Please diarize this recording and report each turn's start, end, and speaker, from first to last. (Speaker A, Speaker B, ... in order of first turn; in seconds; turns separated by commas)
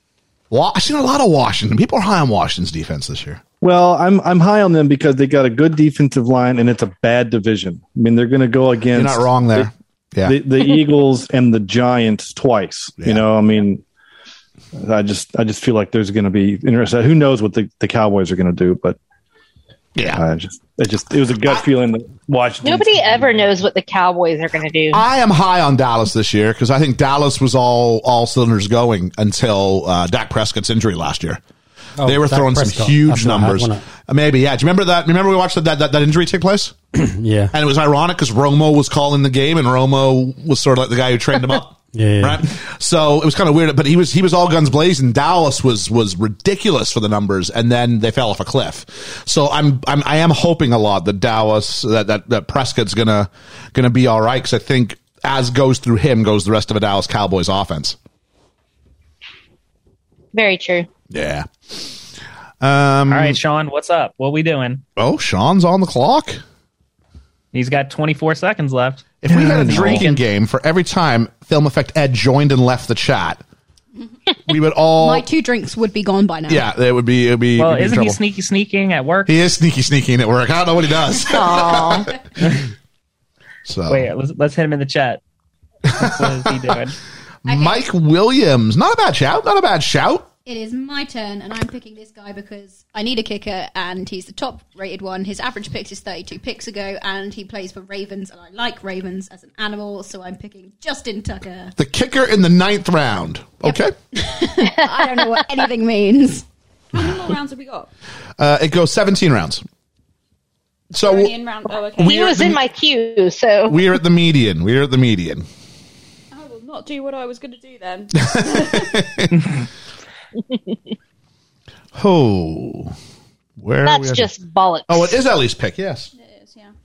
Speaker A: 0.5-3.4, Speaker B: 3.6-9.7, Speaker A: 8.9-10.4, Speaker B: 10.2-13.8, Speaker B: 14.8-19.0, Speaker A: 19.9-20.2, Speaker B: 20.1-23.5, Speaker C: 22.6-25.0, Speaker A: 24.9-31.4, Speaker D: 32.0-33.8, Speaker A: 32.0-36.8, Speaker D: 36.9-37.5, Speaker A: 37.5-58.0, Speaker D: 41.9-42.5, Speaker C: 60.3-60.9, Speaker A: 61.1-61.5, Speaker A: 62.6-63.4, Speaker E: 63.1-64.8, Speaker A: 65.0-66.4, Speaker E: 67.5-70.2, Speaker A: 69.2-73.4, Speaker B: 69.3-70.0, Speaker A: 74.5-75.2, Speaker F: 75.0-76.7, Speaker A: 76.5-78.2, Speaker E: 77.6-79.3, Speaker A: 79.2-82.1, Speaker C: 81.3-82.1, Speaker A: 83.7-84.1, Speaker E: 83.9-85.2, Speaker E: 85.9-87.0, Speaker A: 86.0-86.3, Speaker A: 87.4-90.3, Speaker F: 87.5-87.8, Speaker F: 90.5-101.7, Speaker A: 101.8-103.9, Speaker F: 103.6-106.4, Speaker C: 104.6-105.4, Speaker G: 106.9-107.9, Speaker A: 108.4-109.6, Speaker A: 110.9-111.3, Speaker G: 110.9-112.4, Speaker A: 112.0-112.6, Speaker C: 112.0-113.9, Speaker A: 113.7-115.5, Speaker G: 116.3-118.9, Speaker A: 118.2-119.5, Speaker A: 121.9-122.9, Speaker A: 123.6-124.3, Speaker C: 123.8-125.2, Speaker A: 124.9-126.1, Speaker G: 126.2-126.7